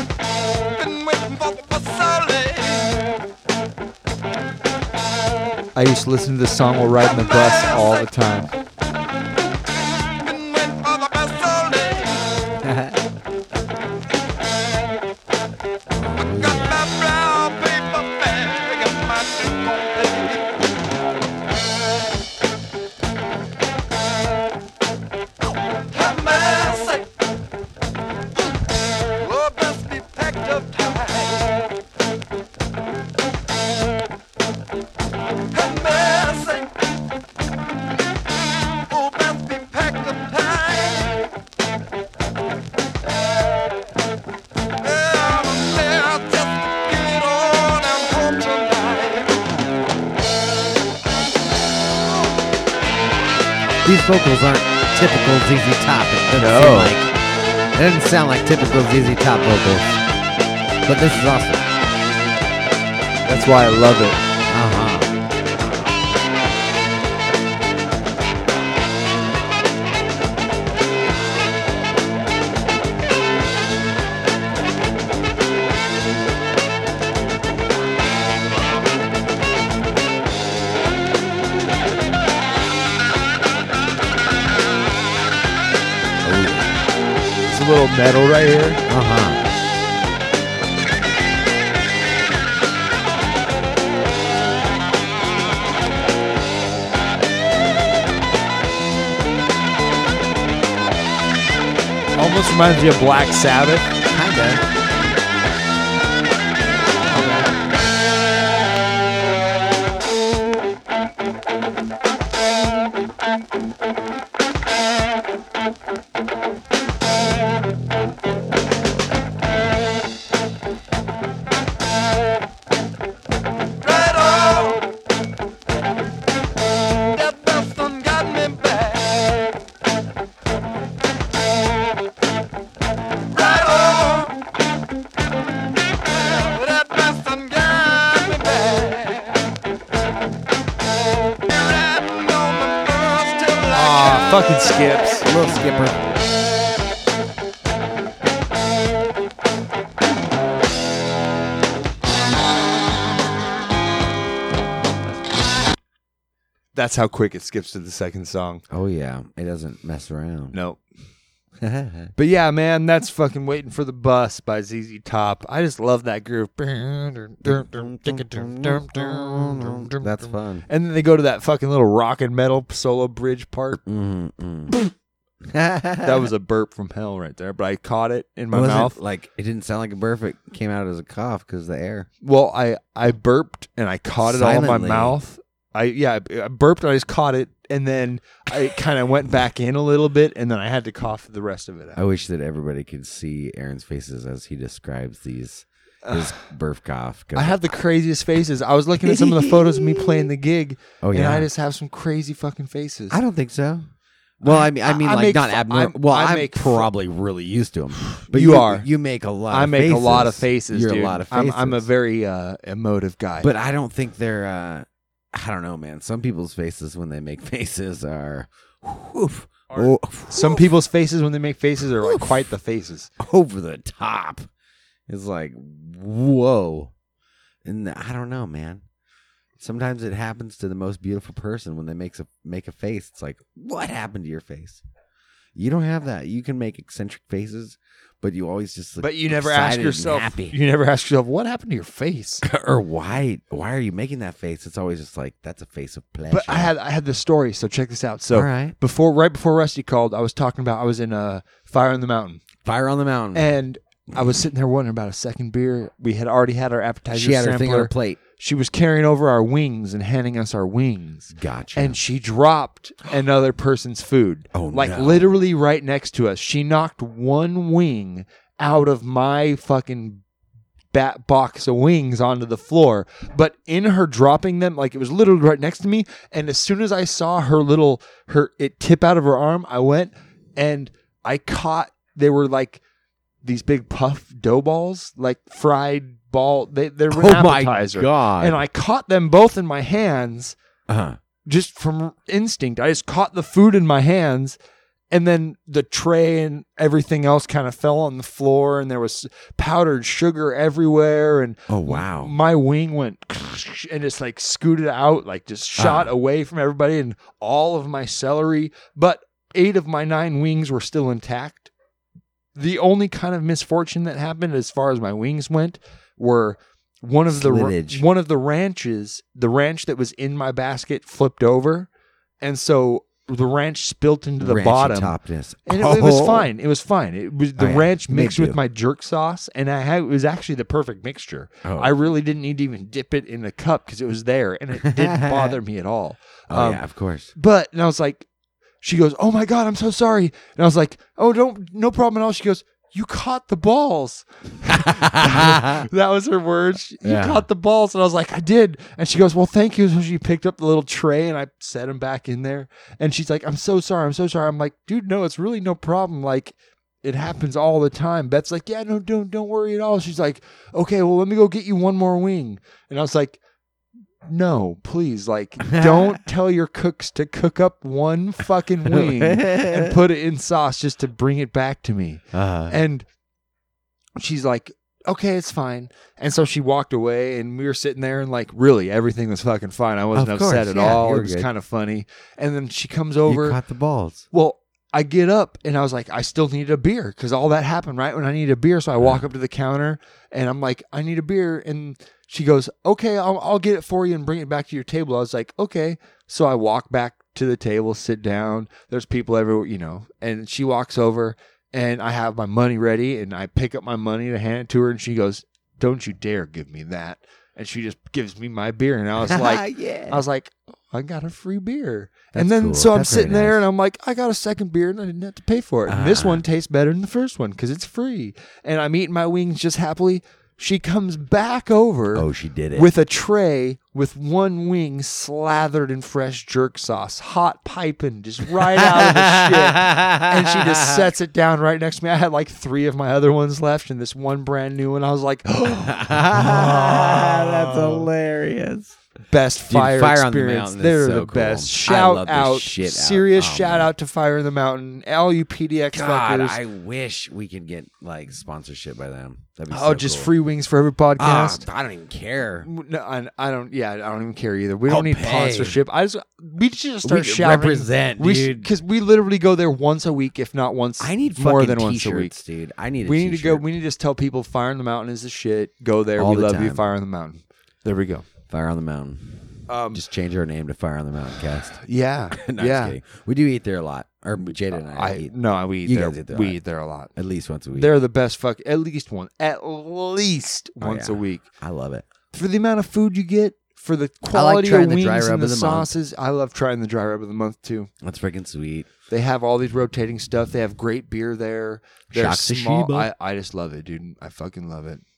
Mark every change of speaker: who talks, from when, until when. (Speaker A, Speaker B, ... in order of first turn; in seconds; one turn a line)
Speaker A: 0.8-3.0
Speaker B: 5.8-8.5
Speaker A: 7.1-8.0
Speaker A: 10.2-12.2
Speaker C: 12.6-13.0
Speaker C: 15.9-16.8
Speaker A: 16.2-20.6
Speaker A: 25.9-27.1
Speaker A: 29.2-31.6
Speaker A: 35.5-36.7
Speaker A: 38.9-41.2
Speaker A: 44.8-49.4
Speaker C: 53.8-57.1
Speaker B: 56.4-57.0
Speaker C: 57.8-59.9
Speaker C: 60.9-61.7
Speaker B: 63.3-64.2
Speaker C: 64.5-65.1
Speaker C: 86.2-86.8
Speaker B: 87.5-88.8
Speaker C: 88.9-89.4
Speaker B: 102.2-104.0
Speaker C: 104.1-104.6
Speaker C: 107.1-107.5
Speaker A: 123.8-124.8
Speaker A: 127.1-129.3
Speaker A: 133.3-134.3
Speaker A: 136.1-139.4
Speaker A: 141.5-145.0
Speaker B: 143.7-145.3
Speaker C: 145.2-146.1
Speaker B: 156.7-158.6
Speaker C: 158.7-160.6
Speaker B: 160.5-160.8
Speaker C: 161.6-162.1
Speaker B: 162.2-173.8
Speaker C: 167.4-170.7
Speaker C: 173.8-174.8
Speaker C: 175.5-176.2
Speaker B: 176.0-179.0
Speaker C: 178.5-182.1
Speaker B: 182.2-192.0
Speaker C: 184.2-185.2
Speaker C: 191.9-197.6
Speaker B: 196.1-196.3
Speaker B: 197.3-203.2
Speaker C: 199.0-200.2
Speaker C: 201.0-201.5
Speaker C: 203.1-203.9
Speaker C: 204.4-211.9
Speaker B: 204.4-206.9
Speaker B: 208.0-208.9
Speaker B: 209.5-213.5
Speaker C: 213.4-220.7
Speaker B: 219.8-223.1
Speaker C: 223.2-224.5
Speaker C: 225.1-226.9
Speaker C: 227.7-228.8
Speaker C: 229.6-234.8
Speaker C: 235.6-240.6
Speaker B: 239.0-242.4
Speaker C: 242.4-246.7
Speaker B: 246.3-252.4
Speaker C: 248.3-248.8
Speaker C: 252.7-253.5
Speaker B: 253.3-270.2
Speaker C: 257.1-258.2
Speaker C: 261.3-262.0
Speaker C: 264.5-265.3
Speaker B: 270.9-282.8
Speaker B: 283.4-290.6
Speaker C: 287.1-288.6
Speaker C: 290.9-291.2
Speaker B: 291.5-294.6
Speaker B: 295.1-311.7
Speaker C: 301.7-302.3
Speaker C: 305.8-306.1
Speaker B: 312.6-321.9
Speaker C: 317.3-318.0
Speaker B: 322.4-325.1
Speaker C: 324.4-326.5
Speaker B: 325.7-336.8
Speaker C: 327.6-328.6
Speaker C: 331.6-331.9
Speaker C: 334.8-335.6
Speaker C: 336.5-337.3
Speaker B: 337.4-338.3
Speaker B: 338.8-363.4
Speaker C: 344.7-345.9
Speaker C: 347.0-347.4
Speaker B: 364.3-373.1
Speaker C: 365.6-366.2
Speaker C: 368.9-370.0
Speaker C: 372.3-372.8
Speaker B: 374.2-383.6
Speaker C: 380.1-381.5
Speaker C: 383.3-384.2
Speaker B: 384.3-438.1
Speaker C: 409.2-410.2
Speaker C: 412.3-413.6
Speaker C: 415.9-416.4
Speaker C: 422.1-422.9
Speaker C: 428.7-431.0
Speaker C: 435.8-439.0
Speaker B: 439.3-446.6
Speaker C: 439.7-443.9
Speaker C: 445.9-450.3
Speaker B: 449.7-451.7
Speaker C: 451.2-452.7
Speaker B: 452.6-462.4
Speaker C: 454.9-455.8
Speaker C: 457.0-458.7
Speaker C: 461.0-463.7
Speaker B: 463.0-468.3
Speaker C: 466.2-466.9
Speaker C: 468.5-471.8
Speaker B: 469.7-470.0
Speaker B: 471.8-473.0
Speaker C: 472.4-476.6
Speaker B: 474.4-477.1
Speaker C: 477.1-477.9
Speaker B: 477.7-481.4
Speaker C: 480.8-482.1
Speaker B: 482.3-487.9
Speaker C: 484.3-485.9
Speaker C: 488.0-488.9
Speaker B: 489.1-495.0
Speaker C: 492.1-493.1